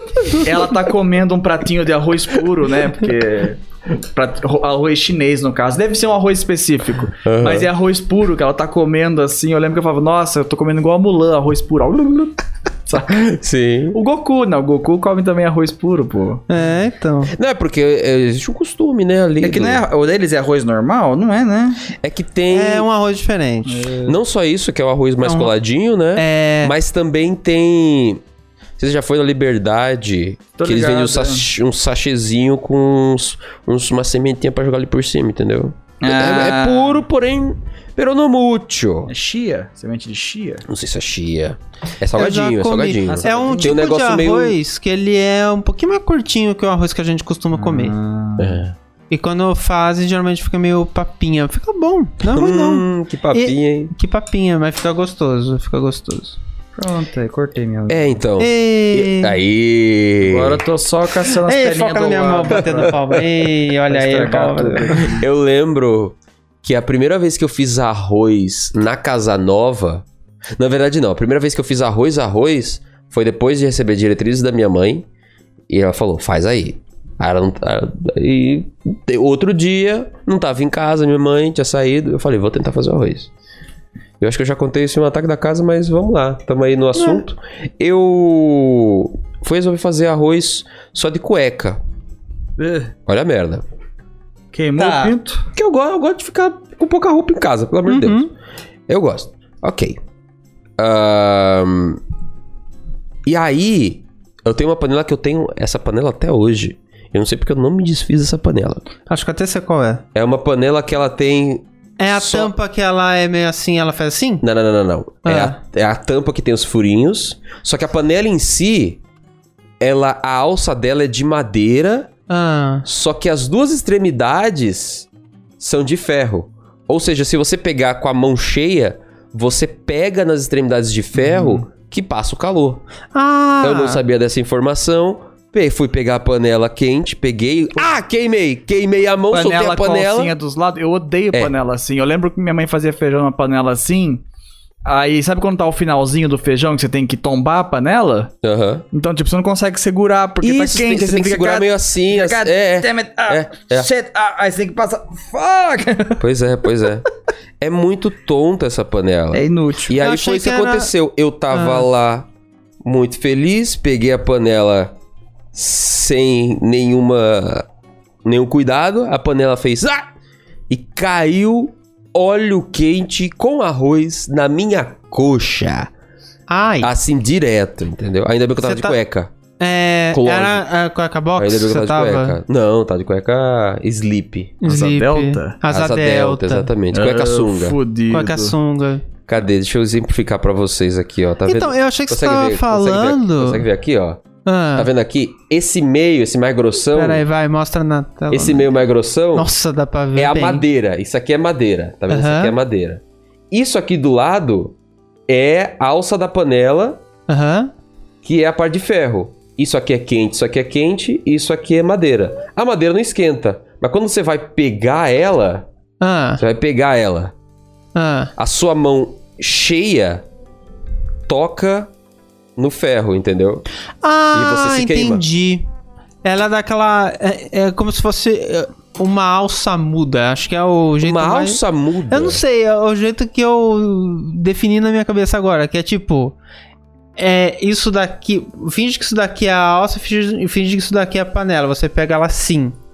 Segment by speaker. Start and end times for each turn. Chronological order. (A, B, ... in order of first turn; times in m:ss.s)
0:00.4-0:13.3 A
0:07.2-0:07.7 B
0:13.1-0:14.0 B
0:13.9-0:16.4 A
0:16.5-0:17.3 C
0:17.3-0:19.8 B
0:19.4-0:21.8 A
0:22.0-0:22.9 B
0:22.5-0:23.8 C
0:23.7-0:24.2 A
0:24.1-0:28.2 B
0:25.2-0:25.5 C
0:26.2-0:26.8 C
0:28.8-0:39.1 B
0:30.6-0:31.5 A
0:36.0-0:37.0 A
0:39.1-0:40.7 A
0:40.7-0:44.6 B
0:42.2-0:48.0 C
0:43.2-0:43.8 A
0:47.5-0:48.6 A
0:48.4-0:48.8 B
0:49.1-0:56.4 C
0:52.3-0:53.9 B
0:56.8-0:58.2 A
0:57.9-1:00.6 B
0:58.4-0:59.4 C
1:00.2-1:02.9 A
1:01.5-1:05.0 C
1:02.6-1:03.2 B
1:03.9-1:05.3 A
1:05.2-1:10.0 B
1:10.6-1:15.1 B
1:15.7-1:23.3 B
1:24.2-1:31.8 B
1:27.0-1:27.2 C
1:32.6-1:32.9 A
1:33.1-1:33.6 B
1:34.5-1:35.4 A
1:34.8-1:35.1 C
1:35.6-1:38.3 B
1:37.9-1:38.3 C
1:38.9-1:40.0 B
1:40.8-1:42.0 B
1:43.3-1:48.8 B
1:49.1-1:50.0 C
1:50.1-1:52.5 B
1:52.0-1:54.4 C
1:54.4-1:59.0 B
1:55.2-1:55.6 C
1:59.8-2:02.1 B
2:02.3-2:02.8 C
2:02.8-2:05.1 B
2:05.6-2:12.8 B
2:11.2-2:11.6 A
2:13.1-2:14.0 C
2:13.6-2:20.3 B
2:19.3-2:24.2 A
2:24.8-2:28.3 A
2:28.4-2:28.8 B
2:28.9-2:36.2 A
2:30.4-2:33.9 B
2:36.2-2:37.1 B
2:37.6-2:42.3 B
2:39.3-2:39.9 A
2:40.0-2:40.9 C
2:41.5-2:41.9 C
2:42.8-2:44.9 B
2:45.5-2:47.6 B
2:48.2-2:50.1 B
2:50.7-2:55.9 B
2:56.5-2:56.9 C
2:56.8-2:59.3 B
2:58.6-2:59.0 C
2:59.6-3:02.4 C
3:00.1-3:00.6 B
3:01.4-3:04.7 B
3:04.6-3:06.7 C
3:04.7-3:05.6 A
3:05.6-3:07.8 B
3:06.9-3:08.6 A
3:08.1-3:09.0 C
3:09.3-3:14.2 B
3:11.5-3:13.7 C
3:14.4-3:14.9 C
3:14.8-3:17.2 B
3:16.9-3:18.7 C
3:18.3-3:19.5 B
3:19.3-3:20.6 C
3:20.2-3:24.8 B
3:22.1-3:22.6 C
3:25.3-3:27.0 B
3:27.3-3:27.7 C
3:28.2-3:35.7 B
3:36.0-3:36.4 C
3:36.4-3:37.3 B
3:38.0-3:38.3 C
3:38.4-3:40.2 B
3:41.3-3:41.9 B
3:42.6-3:43.6 B
3:44.0-3:45.7 C
3:44.3-3:45.2 B
3:46.2-3:56.4 C
3:51.0-3:52.4 B
3:57.2-4:02.8 C